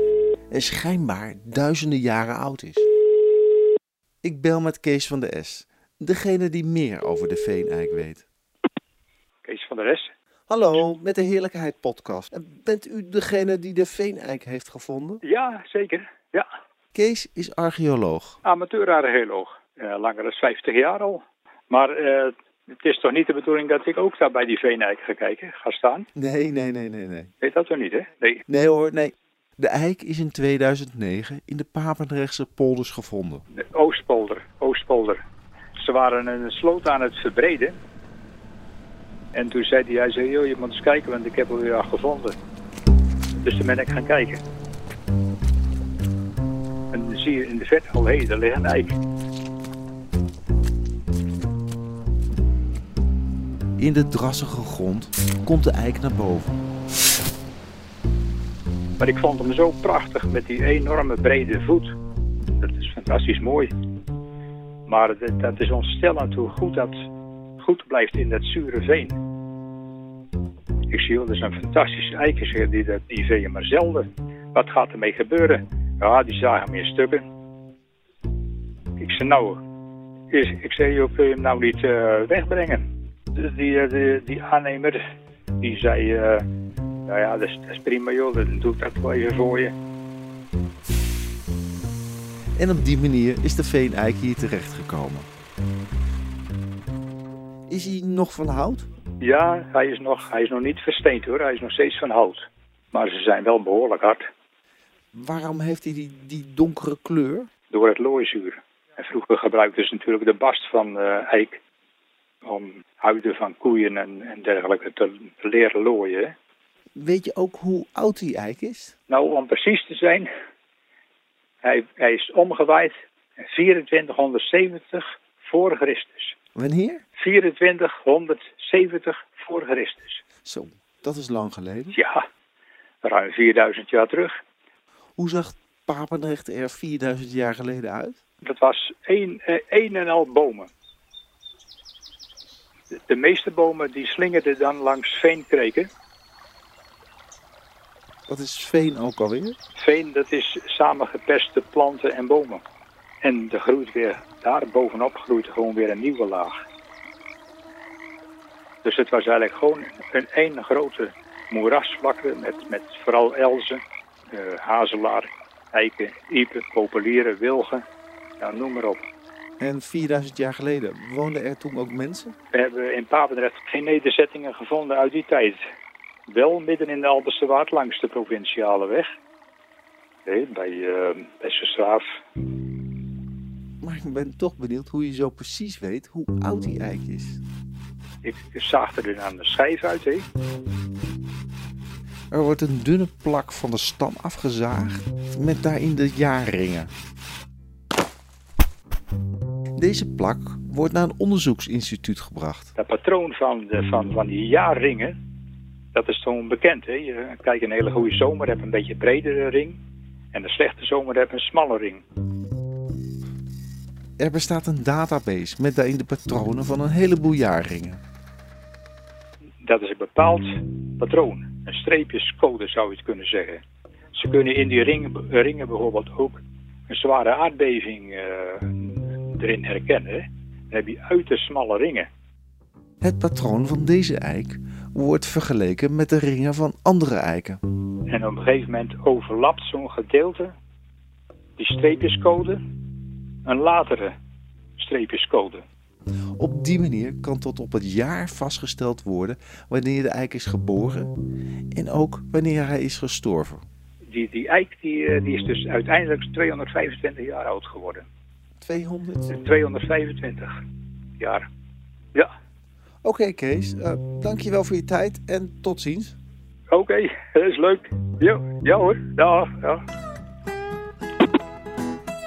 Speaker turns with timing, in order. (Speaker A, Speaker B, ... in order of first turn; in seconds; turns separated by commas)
Speaker A: 0.5-2.9, Speaker A: 4.2-8.3, Speaker B: 9.4-10.1, Speaker A: 10.5-15.2, Speaker B: 15.2-16.5, Speaker A: 16.9-18.4, Speaker B: 18.4-26.1, Speaker A: 26.2-27.3, Speaker B: 27.4-28.4, Speaker A: 28.5-33.4, Speaker B: 33.5-35.2, Speaker B: 35.8-37.8, Speaker B: 39.3-42.4, Speaker B: 43.4-44.4, Speaker B: 46.9-49.0, Speaker A: 53.8-56.6, Speaker B: 59.0-62.0, Speaker B: 62.6-63.7, Speaker B: 64.9-67.0, Speaker B: 67.6-69.2, Speaker B: 70.9-77.3, Speaker B: 79.0-79.6, Speaker B: 80.3-85.0, Speaker B: 85.6-86.5, Speaker B: 87.1-89.7, Speaker A: 92.6-95.3, Speaker A: 97.7-98.9, Speaker B: 99.2-104.2, Speaker A: 105.1-107.5, Speaker B: 107.7-111.6, Speaker B: 112.4-116.3, Speaker A: 117.0-118.9, Speaker B: 119.1-120.3, Speaker B: 121.6-122.9, Speaker B: 123.5-126.3, Speaker A: 126.5-127.0, Speaker B: 127.2-130.2, Speaker A: 130.4-132.0, Speaker B: 131.9-132.2, Speaker B: 133.0-134.4, Speaker A: 135.2-138.2, Speaker B: 138.4-140.7, Speaker B: 143.1-145.9, Speaker A: 148.3-149.6, Speaker B: 149.8-152.6, Speaker B: 153.2-156.6, Speaker B: 158.8-163.8, Speaker B: 164.3-167.8, Speaker B: 168.4-169.1, Speaker A: 169.6-172.3, Speaker B: 172.5-175.6, Speaker B: 176.3-179.1, Speaker B: 180.3-182.1, Speaker A: 183.8-187.4, Speaker B: 188.2-190.3, Speaker A: 192.3-196.9, Speaker A: 199.8-202.7, Speaker B: 202.8-205.2, Speaker B: 205.9-209.8, Speaker B: 210.3-212.0, Speaker A: 214.2-218.0, Speaker B: 219.6-223.6, Speaker B: 224.2-232.1, Speaker A: 233.0-237.6, Speaker B: 238.1-240.6, Speaker B: 241.6-242.6, Speaker B: 243.5-244.1, Speaker B: 244.8-245.7, Speaker A: 246.4-251.1, Speaker A: 251.7-253.7, Speaker B: 254.1-258.1, Speaker A: 258.6-259.3, Speaker B: 259.3-260.6, Speaker B: 261.2-261.5, Speaker A: 263.0-266.2, Speaker B: 266.7-269.8